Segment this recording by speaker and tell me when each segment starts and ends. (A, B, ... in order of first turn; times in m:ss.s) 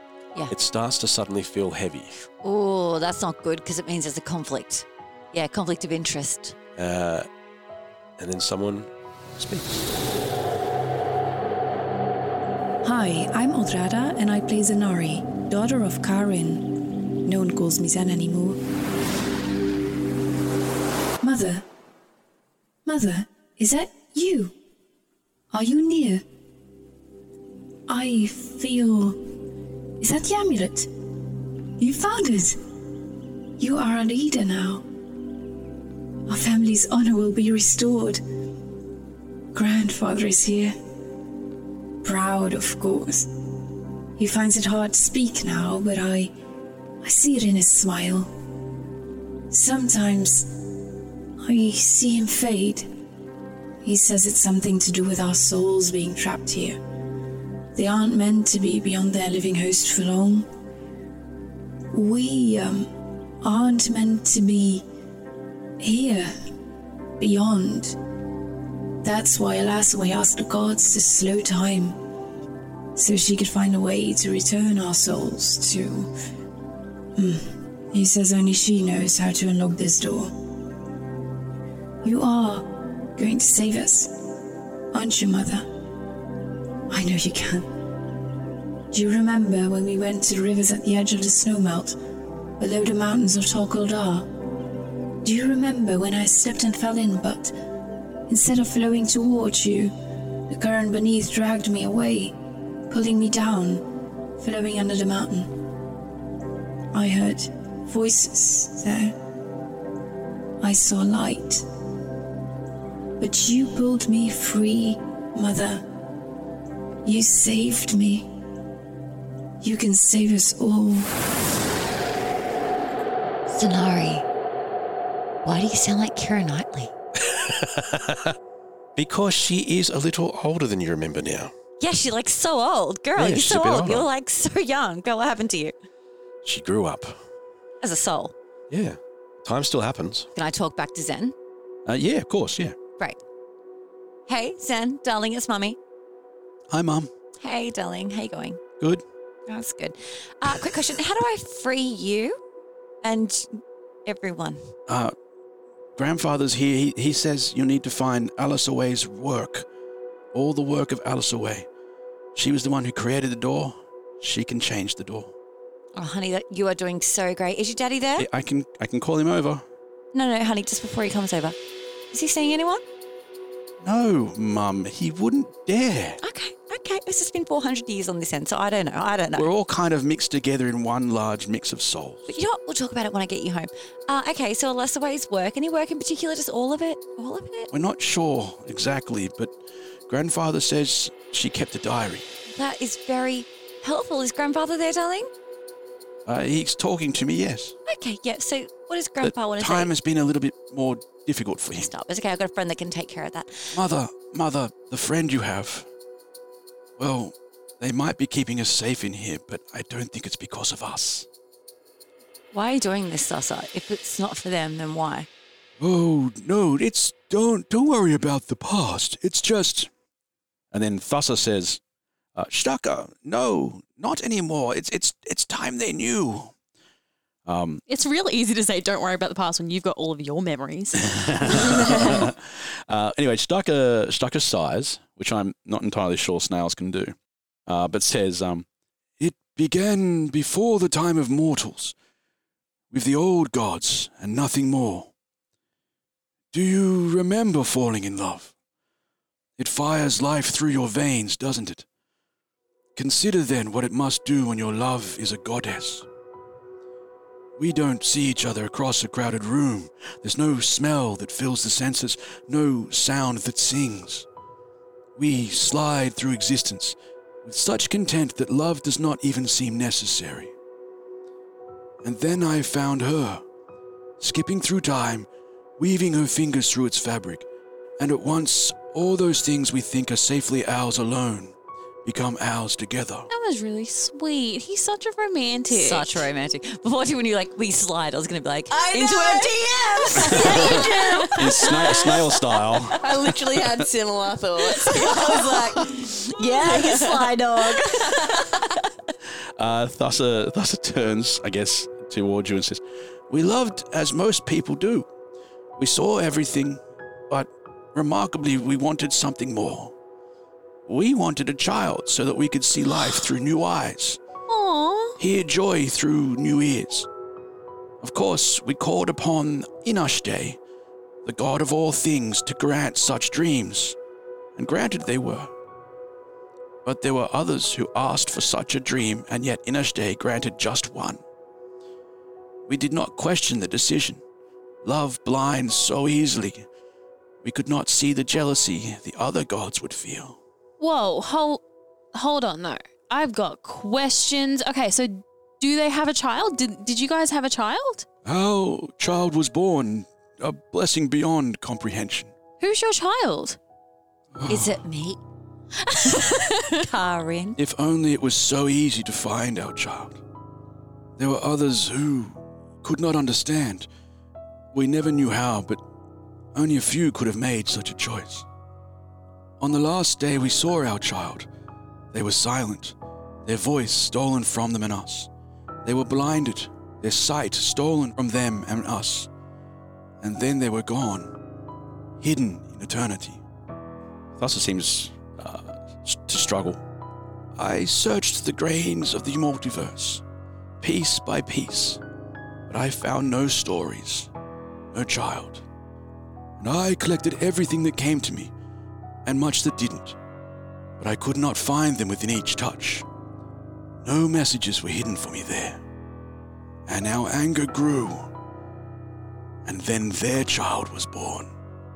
0:00.5-0:02.2 A
0:02.4-0:06.6 B
0:06.8-0:07.3 A
0:08.2-0:09.8 A
0:12.8-0:18.6 C
0:21.2-0:21.6 C
0:22.8-0:24.5 C
0:25.5-0:26.2 C
0:27.9-0:29.2 C
0:30.0-0:30.9 C
0:31.8-0:32.6 C
0:33.6-0:34.8 C
0:36.3-0:38.2 C
0:39.5-0:40.7 C
0:42.0-0:43.3 C
0:44.2-0:46.3 C
0:47.0-0:48.3 C
0:49.5-0:50.5 C
0:51.4-0:52.9 C
0:53.8-0:56.8 C
0:57.7-1:00.5 C
1:01.9-1:04.8 C
1:05.8-1:06.3 C
1:07.2-1:08.0 C
1:09.0-1:12.0 C
1:13.0-1:16.1 C
1:17.2-1:20.3 C
1:22.0-1:24.1 C
1:24.9-1:25.7 C
1:26.9-1:27.7 C
1:28.9-1:32.0 C
1:32.6-1:34.3 C
1:35.2-1:37.5 C
1:38.3-1:39.9 C
1:40.5-1:45.6 C
1:46.9-1:49.1 C
1:50.6-1:51.6 C
1:53.2-1:55.9 C
1:57.0-1:58.3 C
1:59.6-2:01.2 C
2:03.5-2:04.2 B
2:05.4-2:06.9 B
2:07.3-2:08.3 A
2:09.0-2:11.5 A
2:11.8-2:15.7 B
2:13.2-2:14.1 A
2:16.4-2:17.2 A
2:17.8-2:18.3 B
2:18.7-2:20.3 A
2:20.3-2:21.3 B
2:21.8-2:22.8 D
2:24.3-2:25.8 B
2:26.7-2:27.1 D
2:27.4-2:28.6 B
2:29.5-2:32.4 B
2:33.0-2:34.7 B
2:34.9-2:35.1 D
2:36.0-2:39.7 D
2:40.3-2:41.7 D
2:42.3-2:45.3 D
2:45.9-2:48.3 B
2:48.2-2:49.6 D
2:50.1-2:51.6 B
2:52.1-2:52.8 B
2:53.8-2:56.2 D
2:56.2-2:59.5 B
2:59.3-3:02.4 D
3:02.3-3:07.7 B
3:07.7-3:09.5 D
3:10.1-3:12.3 D
3:12.5-3:15.3 B
3:16.2-3:17.7 D
3:17.8-3:19.9 B
3:19.2-3:21.9 D
3:21.8-3:23.8 B
3:23.7-3:25.9 D
3:27.0-3:31.2 D
3:32.5-3:35.3 B
3:35.8-3:39.9 D
3:40.7-3:41.8 D
3:42.3-3:46.5 D
3:47.4-3:47.8 D
3:47.9-3:52.2 E
3:51.0-3:57.1 D
3:57.7-3:58.6 D
3:59.2-4:01.9 D
4:02.9-4:05.1 D
4:06.5-4:08.5 D
4:09.6-4:11.8 D
4:13.0-4:16.0 D
4:17.6-4:24.2 D
4:25.2-4:30.5 D
4:32.0-4:33.4 D
4:34.2-4:37.4 D
4:38.0-4:43.3 D
4:43.3-4:46.3 E
4:45.7-4:52.1 B
4:48.7-4:56.0 F
4:50.2-4:53.8 D
4:54.8-4:58.7 B
4:56.5-4:57.3 F
4:59.6-5:05.1 D
5:05.8-5:09.9 D
5:10.8-5:14.2 D
5:14.5-5:15.2 E
5:15.2-5:17.1 D
5:18.0-5:20.6 D
5:21.2-5:24.0 D
5:24.6-5:25.5 D
5:26.8-5:31.2 D
5:32.7-5:34.2 D
5:34.8-5:36.6 D
5:37.4-5:40.4 D
5:40.8-5:41.6 E
5:42.1-5:48.0 E
5:48.2-5:52.3 D
5:52.6-5:53.6 E
5:54.3-5:54.8 D
5:54.5-5:55.2 B
5:55.8-5:56.8 E
5:56.0-5:57.6 B
5:57.6-6:00.2 D
6:01.2-6:03.9 D
6:04.7-6:05.8 D
6:06.5-6:08.4 D
6:09.6-6:11.5 D
6:12.1-6:15.3 D
6:15.8-6:19.3 D
6:20.2-6:21.3 D
6:22.2-6:23.4 D
6:24.4-6:26.8 D
6:27.6-6:30.2 D
6:30.8-6:32.0 D
6:32.7-6:34.3 D
6:34.9-6:35.6 D
6:36.6-6:38.5 D
6:39.2-6:40.2 D
6:41.0-6:43.0 D
6:44.0-6:45.8 D
6:46.9-6:48.3 D
6:49.6-6:51.5 D